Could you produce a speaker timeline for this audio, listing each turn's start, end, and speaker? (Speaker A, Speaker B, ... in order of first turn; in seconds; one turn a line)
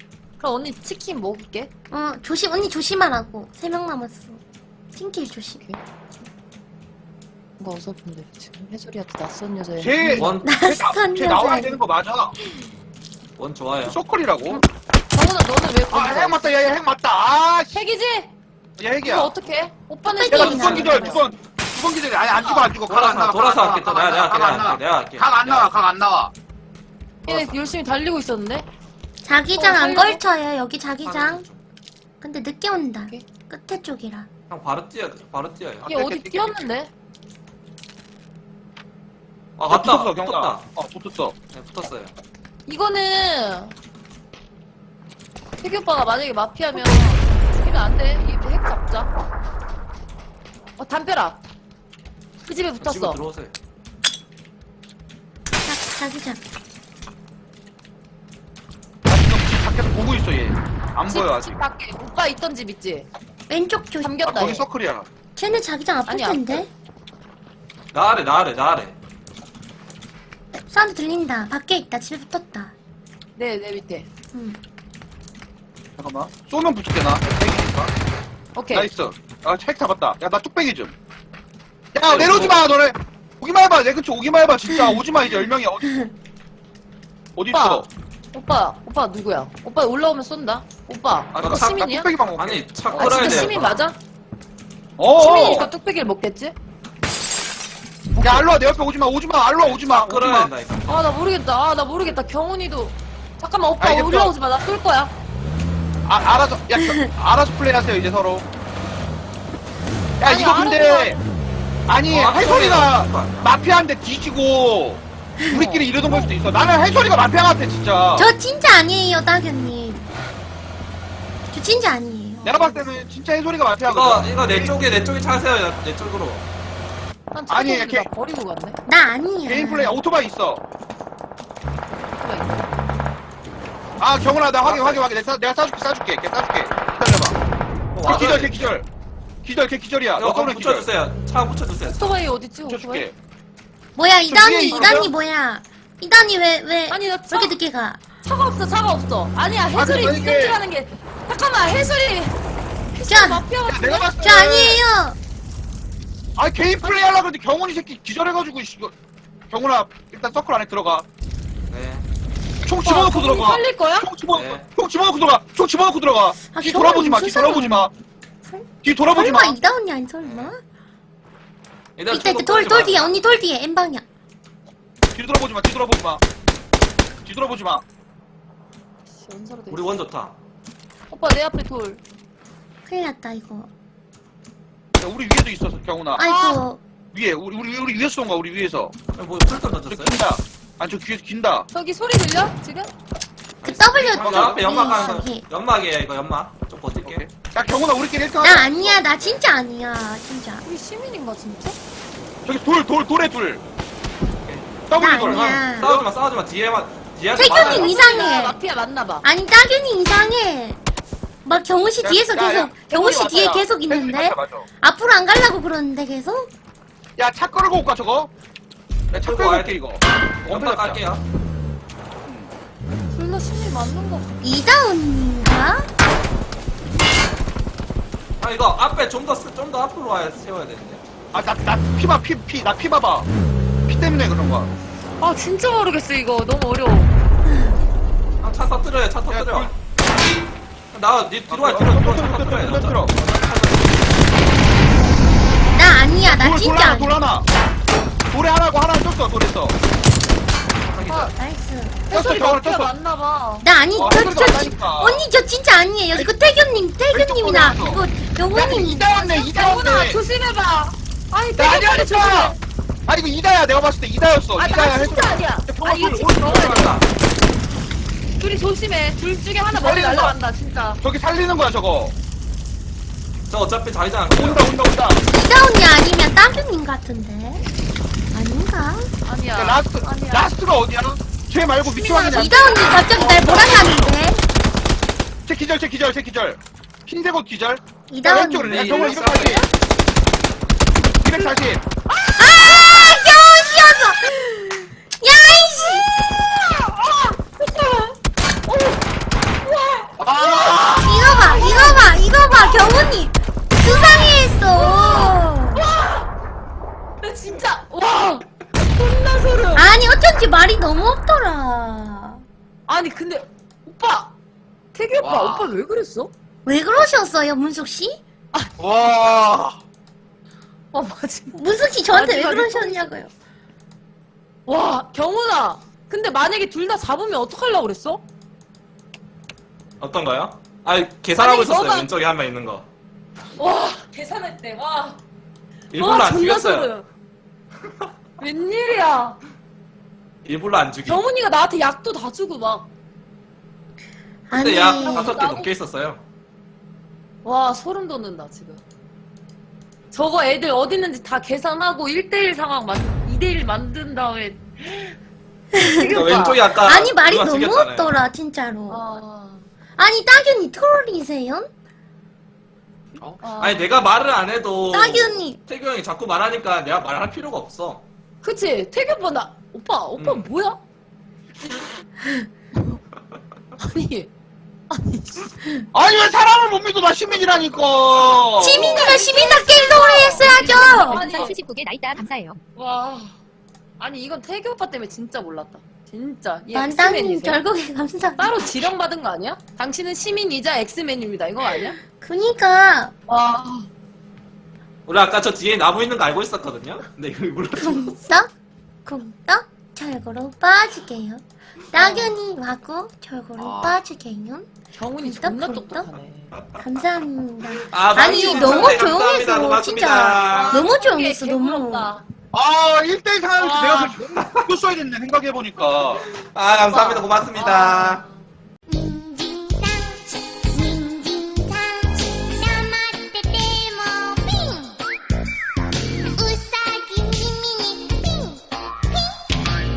Speaker A: 0.4-1.7
Speaker B: 1.9-4.4
Speaker B: 4.9-5.6
Speaker A: 7.6-10.3
Speaker C: 9.8-12.3
Speaker D: 10.2-10.5
Speaker B: 10.4-11.7
Speaker D: 13.4-14.0
Speaker C: 13.8-14.6
Speaker A: 15.1-16.8
Speaker C: 15.9-17.8
Speaker A: 17.7-18.3
Speaker C: 18.8-19.3
Speaker A: 19.0-21.3
Speaker B: 20.1-21.2
Speaker C: 20.3-26.3
Speaker A: 22.4-22.7
Speaker D: 22.9-25.7
Speaker A: 27.2-28.7
Speaker D: 27.3-27.5
Speaker B: 29.2-31.4
Speaker A: 29.5-30.2
Speaker D: 31.0-31.6
Speaker B: 32.2-34.3
Speaker D: 34.5-35.9
Speaker C: 35.8-36.5
Speaker A: 35.8-36.9
Speaker D: 39.6-40.7
Speaker C: 39.7-41.3
Speaker D: 41.5-42.1
Speaker A: 42.7-43.7
Speaker A: 45.6-49.1
Speaker B: 46.7-47.1
Speaker A: 50.8-51.4
Speaker A: 52.4-53.2
Speaker D: 52.8-53.5
Speaker B: 55.6-56.4
Speaker C: 59.0-61.6
Speaker A: 61.1-63.1
Speaker B: 63.5-64.2
Speaker A: 64.0-64.7
Speaker C: 64.2-65.1
Speaker B: 65.3-66.7
Speaker A: 66.1-66.7
Speaker D: 67.9-68.9
Speaker B: 70.6-72.7
Speaker A: 73.3-74.1
Speaker B: 74.3-74.6
Speaker C: 76.0-77.9
Speaker A: 78.5-78.9
Speaker C: 78.7-80.9
Speaker C: 81.9-86.0
Speaker D: 82.1-82.6
Speaker C: 87.3-87.9
Speaker A: 87.5-92.1
Speaker C: 91.3-93.5
Speaker D: 91.4-91.7
Speaker D: 92.3-93.8
Speaker A: 93.0-94.0
Speaker C: 95.0-95.7
Speaker A: 95.2-96.5
Speaker A: 98.2-98.4
Speaker C: 98.2-100.5
Speaker D: 99.6-101.0
Speaker A: 100.8-105.1
Speaker C: 103.8-104.3
Speaker C: 106.0-108.4
Speaker C: 110.2-111.2
Speaker A: 110.2-111.2
Speaker C: 111.9-118.3
Speaker D: 112.1-113.5
Speaker A: 115.5-115.9
Speaker B: 118.2-120.1
Speaker B: 121.5-122.5
Speaker A: 122.4-123.1
Speaker C: 122.4-124.8
Speaker D: 123.9-126.4
Speaker A: 127.3-128.8
Speaker C: 127.5-128.1
Speaker B: 128.9-130.0
Speaker C: 129.4-130.6
Speaker A: 132.1-132.8
Speaker C: 134.0-137.4
Speaker D: 134.6-135.0
Speaker D: 137.9-138.6
Speaker C: 138.0-138.8
Speaker C: 139.4-140.9
Speaker D: 140.2-142.1
Speaker A: 141.9-143.1
Speaker C: 142.7-143.1
Speaker B: 143.9-148.0
Speaker C: 144.3-145.1
Speaker A: 146.9-147.6
Speaker A: 148.2-152.4
Speaker C: 149.7-150.6
Speaker A: 152.9-154.1
Speaker B: 153.1-153.4
Speaker C: 153.7-154.8
Speaker B: 154.2-155.2
Speaker C: 156.4-158.9
Speaker C: 159.5-161.0
Speaker D: 161.7-162.0
Speaker C: 162.6-167.9
Speaker A: 162.8-164.1
Speaker D: 164.3-164.7
Speaker B: 166.5-167.9
Speaker B: 168.4-170.6
Speaker C: 168.8-169.6
Speaker D: 170.2-170.5
Speaker D: 172.0-173.1
Speaker B: 172.1-174.0
Speaker C: 175.1-176.2
Speaker C: 177.2-177.8
Speaker A: 179.1-180.1
Speaker D: 179.7-180.3
Speaker A: 181.1-182.0
Speaker B: 182.9-183.7
Speaker C: 185.0-188.9
Speaker B: 186.2-186.8
Speaker D: 189.1-190.2
Speaker C: 189.9-191.7
Speaker A: 191.7-192.9
Speaker D: 193.6-197.2
Speaker B: 193.6-195.4
Speaker C: 194.0-194.6
Speaker C: 197.0-199.0
Speaker B: 198.4-200.6
Speaker A: 200.6-201.8
Speaker C: 202.4-203.6
Speaker D: 204.4-207.9
Speaker C: 204.9-206.1
Speaker B: 204.9-205.9
Speaker B: 207.4-208.6
Speaker A: 207.5-209.2
Speaker B: 209.2-210.8
Speaker B: 211.4-216.5
Speaker C: 212.0-214.7
Speaker C: 217.2-218.3
Speaker D: 219.1-219.8
Speaker C: 219.1-221.0
Speaker D: 220.4-221.2
Speaker C: 222.2-222.5
Speaker A: 223.1-224.4
Speaker B: 224.4-225.9
Speaker D: 228.4-231.0
Speaker C: 231.3-233.3
Speaker C: 233.9-234.7
Speaker A: 235.2-237.1
Speaker D: 238.4-239.7
Speaker C: 239.3-239.7
Speaker D: 240.9-244.1
Speaker C: 241.5-243.1
Speaker B: 245.7-247.2
Speaker C: 246.2-247.5
Speaker C: 248.3-249.8
Speaker D: 250.8-251.3
Speaker A: 251.1-251.3
Speaker B: 251.3-252.0
Speaker A: 252.1-253.7
Speaker C: 252.1-252.9
Speaker B: 253.6-259.5
Speaker C: 253.9-255.2
Speaker C: 257.1-260.2
Speaker A: 259.4-262.6
Speaker C: 261.6-262.6
Speaker C: 263.1-267.0
Speaker A: 264.6-267.0
Speaker D: 266.5-267.0
Speaker A: 268.4-271.0
Speaker C: 269.7-270.3
Speaker C: 271.0-272.1
Speaker D: 273.5-274.6
Speaker C: 274.3-275.2
Speaker B: 275.3-277.6
Speaker B: 278.3-279.1
Speaker A: 279.2-280.5
Speaker C: 279.5-284.1
Speaker A: 281.8-283.6
Speaker B: 282.2-284.4
Speaker C: 285.4-289.7
Speaker B: 288.1-289.0
Speaker D: 288.7-289.6
Speaker A: 288.7-289.7
Speaker C: 291.2-291.8
Speaker A: 292.1-293.3
Speaker B: 292.4-296.1
Speaker A: 296.6-298.1
Speaker A: 298.7-299.0
Speaker A: 299.6-302.8
Speaker C: 300.2-301.9
Speaker B: 301.0-305.8
Speaker A: 303.8-306.3
Speaker A: 307.2-309.9
Speaker B: 309.7-312.4
Speaker A: 312.9-314.3
Speaker A: 314.9-316.3
Speaker C: 315.2-315.7
Speaker B: 316.6-318.2
Speaker C: 318.8-319.8
Speaker A: 320.9-321.6
Speaker B: 321.5-323.3
Speaker A: 322.1-323.3
Speaker A: 324.7-328.2
Speaker D: 330.0-332.8
Speaker A: 331.4-332.1
Speaker A: 333.6-335.2
Speaker D: 335.9-336.9
Speaker A: 335.9-337.1
Speaker A: 338.4-339.4
Speaker D: 340.4-341.2
Speaker A: 341.1-342.9
Speaker B: 344.5-345.4
Speaker D: 344.5-346.2
Speaker A: 345.0-345.7
Speaker A: 347.4-348.8
Speaker A: 350.1-355.1
Speaker B: 355.7-356.1
Speaker A: 355.8-356.6
Speaker D: 356.0-358.2
Speaker B: 356.8-359.0
Speaker A: 358.9-359.6
Speaker B: 360.0-361.7
Speaker D: 363.2-368.0
Speaker A: 363.4-363.9
Speaker B: 364.9-365.6
Speaker A: 368.4-370.8
Speaker D: 370.2-370.5
Speaker B: 372.2-372.5
Speaker A: 373.8-374.3
Speaker A: 374.9-375.6
Speaker C: 375.9-379.2
Speaker B: 378.6-381.2
Speaker A: 378.6-381.6
Speaker E: 380.5-382.6
Speaker A: 382.8-383.3
Speaker A: 384.0-387.6
Speaker B: 386.7-388.9
Speaker A: 388.4-392.0
Speaker B: 392.2-393.1
Speaker A: 393.3-393.9
Speaker D: 395.1-398.2
Speaker B: 397.8-398.5
Speaker B: 399.1-404.7
Speaker A: 401.9-402.4
Speaker C: 403.6-403.9
Speaker A: 404.9-406.5
Speaker B: 405.2-406.1
Speaker B: 406.8-412.1
Speaker D: 407.8-410.8
Speaker A: 408.1-409.1
Speaker A: 410.4-412.2
Speaker C: 412.5-416.2
Speaker A: 413.6-414.3
Speaker D: 414.3-414.6
Speaker D: 416.2-418.2
Speaker A: 416.9-418.4
Speaker B: 418.9-419.8
Speaker B: 420.7-421.9
Speaker B: 422.7-424.7
Speaker B: 426.4-428.2